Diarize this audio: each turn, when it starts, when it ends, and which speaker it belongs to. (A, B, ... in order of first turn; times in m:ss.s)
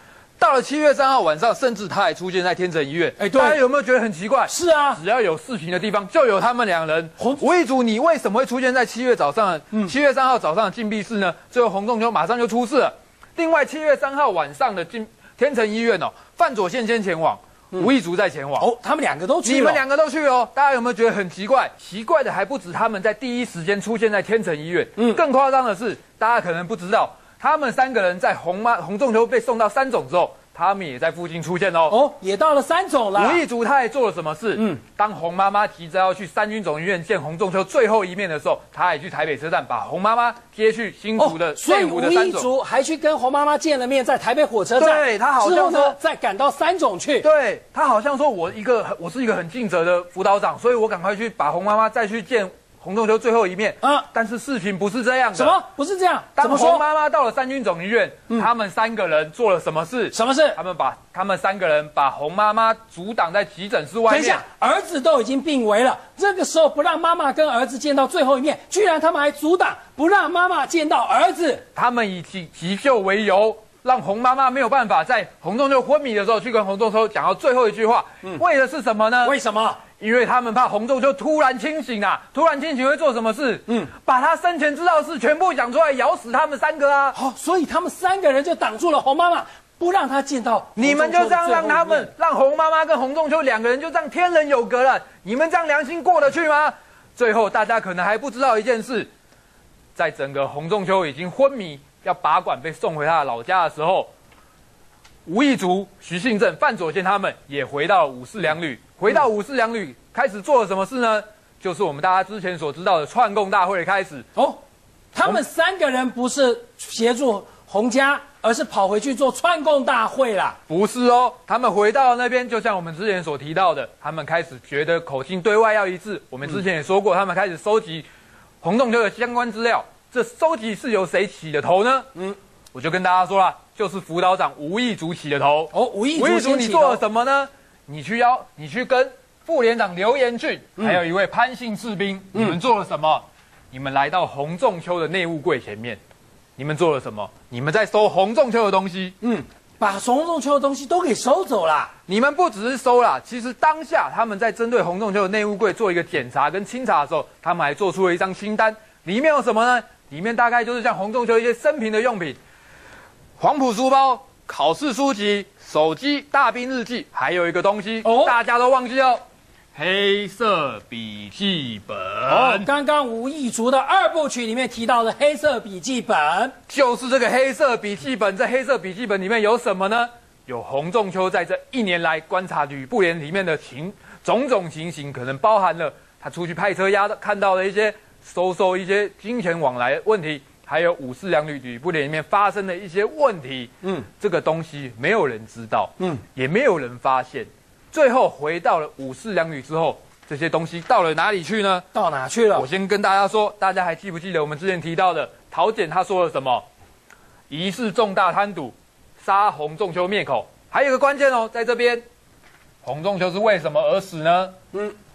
0:00.4-0:18.7 A
0:03.2-0:03.6 B
0:04.5-0:05.0 B
0:18.6-0:19.8 B
0:19.4-0:32.0 A
0:31.9-0:33.4 B
0:33.2-0:42.5 A
0:41.2-0:47.3 B
0:44.8-0:46.0 A
0:47.2-0:55.6 A
0:53.8-0:54.1 B
0:55.3-0:56.8 B
0:56.4-1:04.4 A
1:00.1-1:00.6 B
1:04.1-1:11.6 B
1:11.8-1:19.4 A
1:19.2-1:19.8 B
1:20.0-1:27.2 A
1:27.2-1:32.1 B
1:30.8-1:39.1 A
1:40.0-1:44.1 A
1:45.3-1:54.2 A
1:54.4-1:54.6 B
1:55.1-2:00.6 B
2:00.7-2:08.1 A
2:08.6-2:12.1 A
2:12.7-2:26.0 A
2:15.7-2:17.0 B
2:26.6-2:29.2 A
2:29.2-2:31.9 B
2:32.1-2:42.4 A
2:43.4-2:49.2 A
2:48.0-2:48.4 B
2:49.8-2:52.7 A
2:52.3-2:56.5 B
2:56.7-3:21.8 A
3:21.9-3:22.7 B
3:22.5-3:26.7 A
3:27.5-3:32.0 A
3:32.8-3:34.6 A